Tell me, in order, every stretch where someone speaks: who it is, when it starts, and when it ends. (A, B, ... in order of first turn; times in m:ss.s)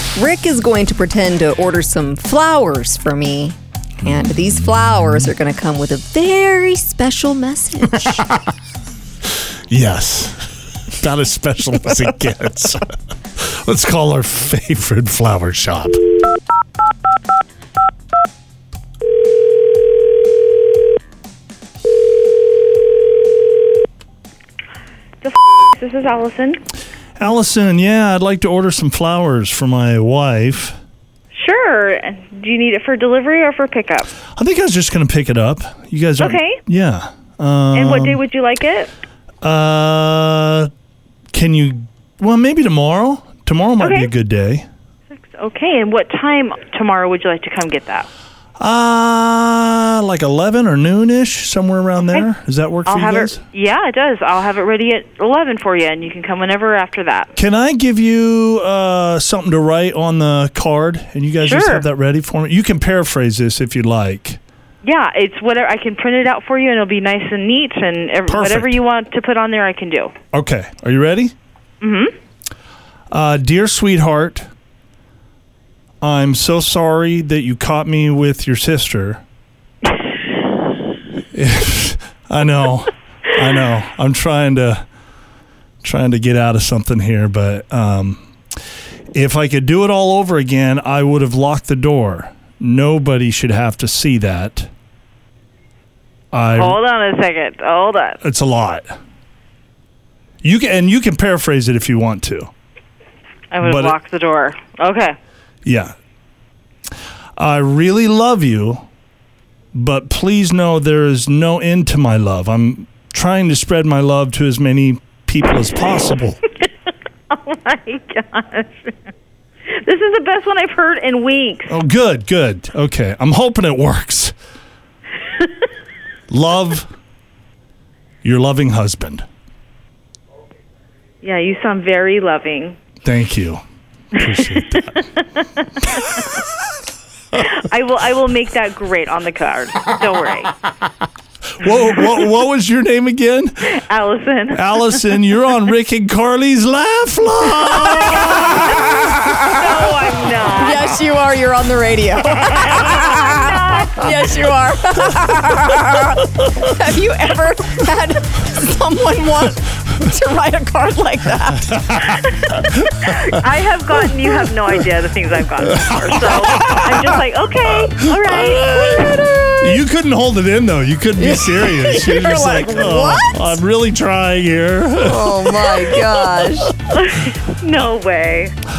0:00.2-0:08.2 A
0:04.0-0:05.3 B
0:09.7-0:12.8 B
0:13.4-0:16.0 B
0:25.2-0:26.6 C
0:27.2-0:30.8 B
0:31.3-0:34.1 C
0:34.4-0:38.2 B
0:36.2-0:36.6 C
0:37.7-0:38.9 C
0:39.4-0:40.7 B
0:41.3-0:44.6 B
0:43.8-0:44.1 C
0:45.1-0:48.1 C
0:48.6-0:53.4 B
0:52.9-0:57.3 C
0:57.4-1:04.4 B
1:01.4-1:01.9 C
1:04.8-1:10.1 C
1:08.3-1:08.8 B
1:10.3-1:11.3 B
1:11.8-1:12.1 C
1:13.1-1:14.5 B
1:16.0-1:19.2 B
1:21.3-1:24.8 B
1:25.8-1:28.3 B
1:29.1-1:34.7 B
1:36.3-1:36.8 B
1:36.6-1:38.2 C
1:38.2-1:39.0 B
1:40.4-1:42.5 B
1:43.5-1:45.2 C
1:43.6-1:44.0 B
1:45.6-1:45.9 B
1:47.4-1:48.8 B
1:49.7-1:56.4 B
1:57.3-1:59.0 C
1:59.7-2:01.7 C
2:01.7-2:04.4 B
2:06.3-2:06.9 B
2:08.2-2:09.2 B
2:11.2-2:12.8 C
2:13.0-2:13.6 B
2:14.1-2:15.0 B
2:14.4-2:14.8 C
2:15.8-2:16.2 C
2:17.4-2:20.5 C
2:21.6-2:23.7 B
2:23.7-2:25.2 C
2:24.5-2:28.9 B
2:28.3-2:30.9 C
2:28.8-2:29.3 A
2:30.6-2:41.8 A
2:32.5-2:34.3 C
2:41.7-2:43.2 B
2:42.4-2:49.2 C
2:45.9-2:47.2 B
2:48.4-2:49.8 A
2:49.6-2:56.7 B
2:51.2-2:53.6 A
2:55.0-2:56.7 A
2:56.9-2:58.5 C